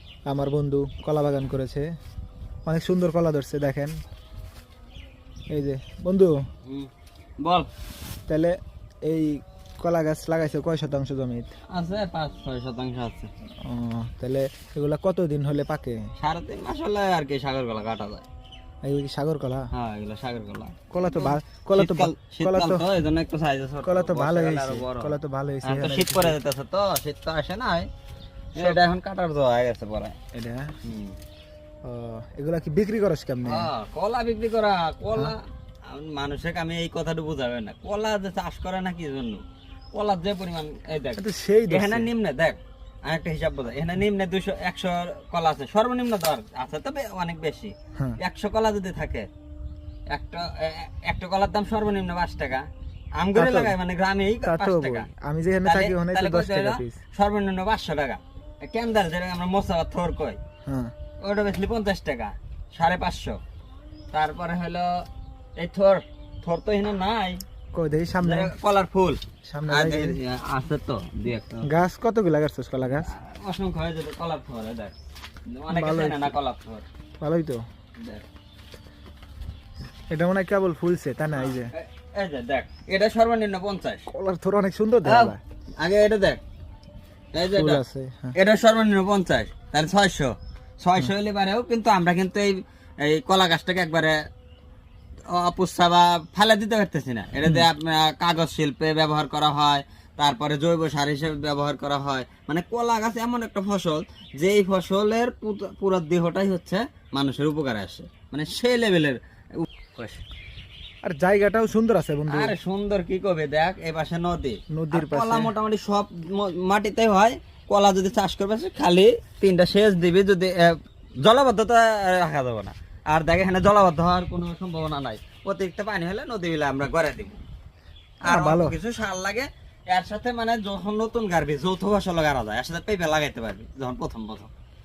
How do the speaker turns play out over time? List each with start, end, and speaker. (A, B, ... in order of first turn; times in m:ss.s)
0:00.3-0:01.8 A
0:02.6-0:03.9 A
0:05.5-0:06.4 A
0:07.4-0:07.7 B
0:08.3-0:08.5 A
0:09.1-0:11.5 A
0:11.7-0:13.3 B
0:13.6-0:16.0 A
0:16.2-0:18.2 B
0:18.8-0:19.7 A
0:19.7-0:27.9 B
0:20.9-0:22.8 A
0:23.8-0:26.4 A
0:28.5-0:30.2 B
0:30.3-0:30.7 A
0:30.8-0:31.2 B
0:31.8-0:33.7 A
0:33.4-0:39.4 B
0:39.9-0:49.3 B
0:41.2-0:42.1 A
0:50.1-0:52.6 B
0:53.2-0:55.1 B
0:53.3-0:53.7 A
0:54.4-0:57.0 A
0:55.6-1:00.4 B
1:00.7-1:00.9 A
1:01.2-1:03.4 B
1:04.1-1:05.0 B
1:05.6-1:07.4 B
1:07.7-1:08.5 A
1:08.2-1:11.7 B
1:09.4-1:10.2 A
1:11.6-1:13.1 A
1:12.9-1:14.9 B
1:15.5-1:16.8 B
1:15.7-1:16.4 A
1:17.2-1:17.6 A
1:18.0-1:18.2 B
1:20.1-1:21.7 A
1:21.3-1:24.0 B
1:24.1-1:25.4 A
1:25.0-1:26.4 B
1:27.3-1:27.8 B
1:27.5-1:28.3 A
1:28.3-1:34.2 B
1:35.3-1:50.2 B
1:51.0-1:52.5 A
1:52.3-2:07.4 B
1:54.7-1:55.5 A
2:08.2-2:14.5 B
2:08.2-2:08.8 A